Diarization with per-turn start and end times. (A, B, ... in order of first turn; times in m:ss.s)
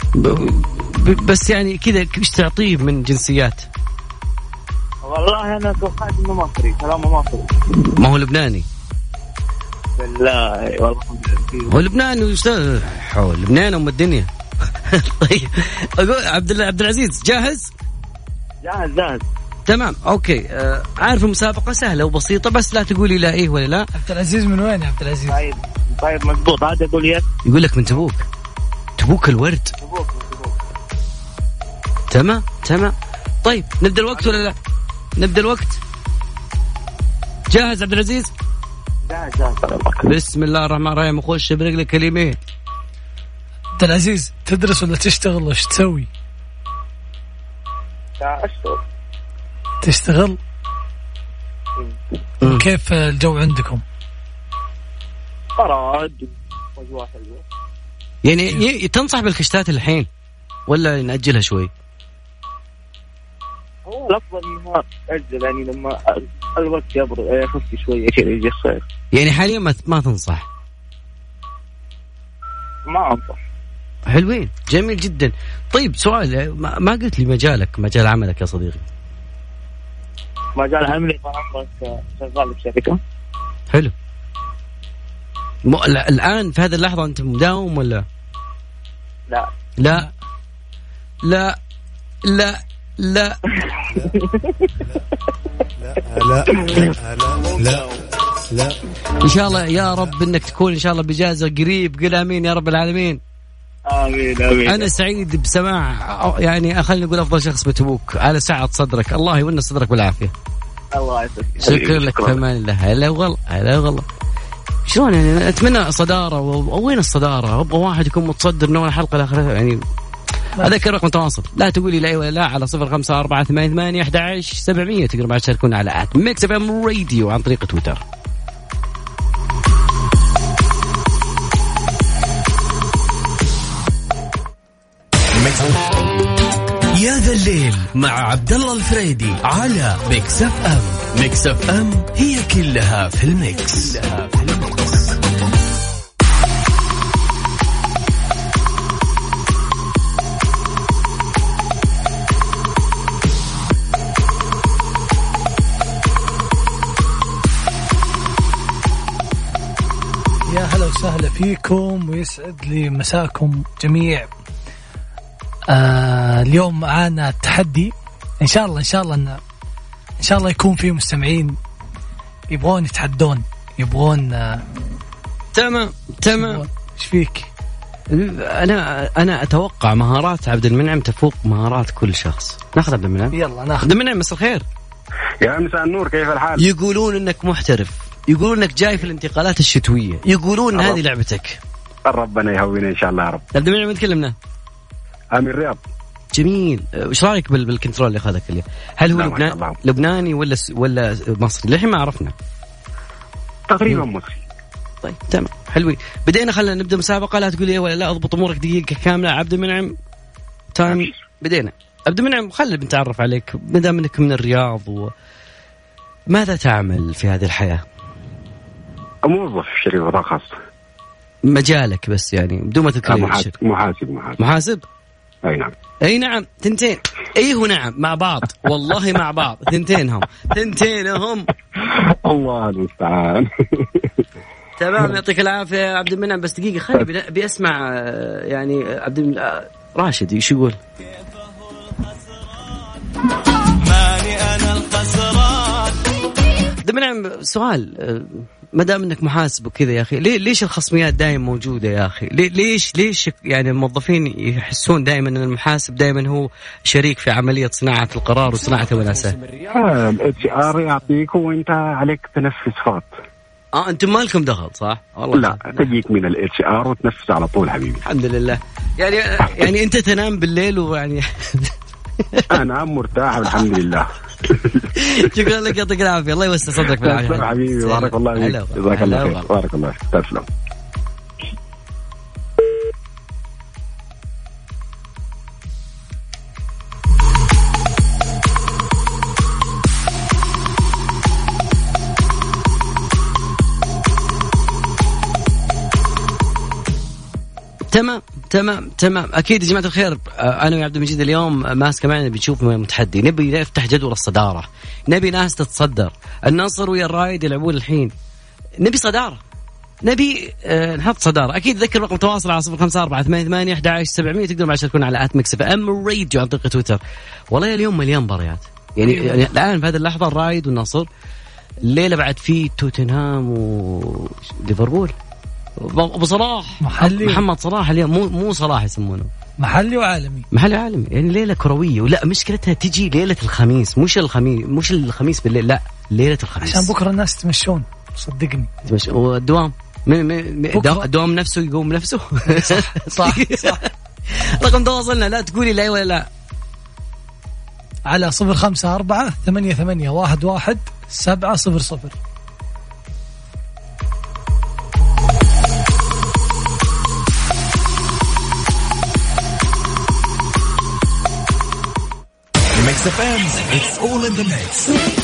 0:00.1-0:03.7 A
0:05.0-0:07.6 B
0:07.9-0:08.6 A
0:10.0-0:11.8 B
0:11.7-0:14.3 A
0:14.8-0:17.7 A
0:18.6-0:19.2 B
0:19.7-0:23.9 A
0:23.9-0:25.4 C
0:25.3-0:27.2 B
0:27.4-0:28.3 A
0:29.0-0:29.7 A
0:29.8-0:30.5 B
0:32.1-0:34.6 A
0:35.2-0:35.8 A
0:37.5-0:38.3 A
0:39.1-0:40.0 B
0:40.0-0:42.4 A
0:43.8-0:46.1 C
0:48.2-0:48.8 B
0:49.8-0:50.4 C
0:52.4-0:53.8 C
0:55.6-0:57.4 B
0:58.2-1:00.1 A
1:00.7-1:01.7 A
1:03.8-1:08.8 B
1:09.1-1:10.4 A
1:12.9-1:13.4 B
1:14.1-1:18.8 A
1:20.6-1:23.0 B
1:25.6-1:28.0 A
1:29.8-1:30.1 A
1:31.2-1:31.6 A
1:32.2-1:33.4 A
1:34.0-1:34.5 B
1:35.8-1:37.9 D
1:36.5-1:36.9 B
1:37.4-1:38.0 B
1:38.5-1:38.8 D
1:39.2-1:43.2 A
1:43.9-1:44.9 B
1:44.6-1:50.3 A
1:50.9-1:52.0 B
1:51.6-1:54.0 A
1:54.8-1:59.8 A
2:00.6-2:08.0 A
2:15.4-2:15.8 E
2:16.9-2:25.0 F
2:40.5-2:44.3 C
2:45.7-2:49.4 C
2:50.2-2:51.6 C
2:52.5-2:54.6 C
2:55.5-2:56.6 A
2:56.4-2:57.5 C
2:58.1-3:04.6 A
3:03.3-3:03.9 C
3:05.4-3:06.6 G
3:06.6-3:11.6 A
3:10.7-3:11.0 G
3:12.0-3:13.4 G
3:13.5-3:14.3 A
3:15.3-3:15.8 G
3:16.3-3:22.3 A
3:19.1-3:19.8 G
3:23.7-3:24.4 G
3:25.0-3:29.9 A
3:30.7-3:35.1 A
3:36.3-3:37.8 A
3:39.2-3:40.5 G
3:41.4-3:43.5 A
3:43.1-3:44.4 G
3:44.4-3:44.8 A
3:45.4-3:45.7 G
3:46.0-3:51.5 A
3:52.2-3:54.2 G
3:54.8-4:00.8 A
4:03.9-4:05.7 A
4:06.8-4:19.4 A
4:19.7-4:23.1 G
4:23.7-4:25.9 A
4:25.3-4:28.0 G
4:28.0-4:31.7 A
4:32.5-4:34.8 G
4:34.9-4:39.4 A
4:36.9-4:40.5 G
4:57.9-5:08.1 A
5:08.8-5:09.4 A
5:10.0-5:21.1 A
5:19.0-5:19.5 C
5:21.8-5:25.1 A
5:25.8-5:29.3 A
5:26.8-5:27.4 C
5:29.6-5:30.4 C
5:30.5-5:36.9 A
5:36.6-5:38.7 C
5:38.8-5:46.3 A
5:40.7-5:41.0 C
5:42.5-5:43.8 C
5:48.1-5:52.2 C
6:02.8-6:05.0 E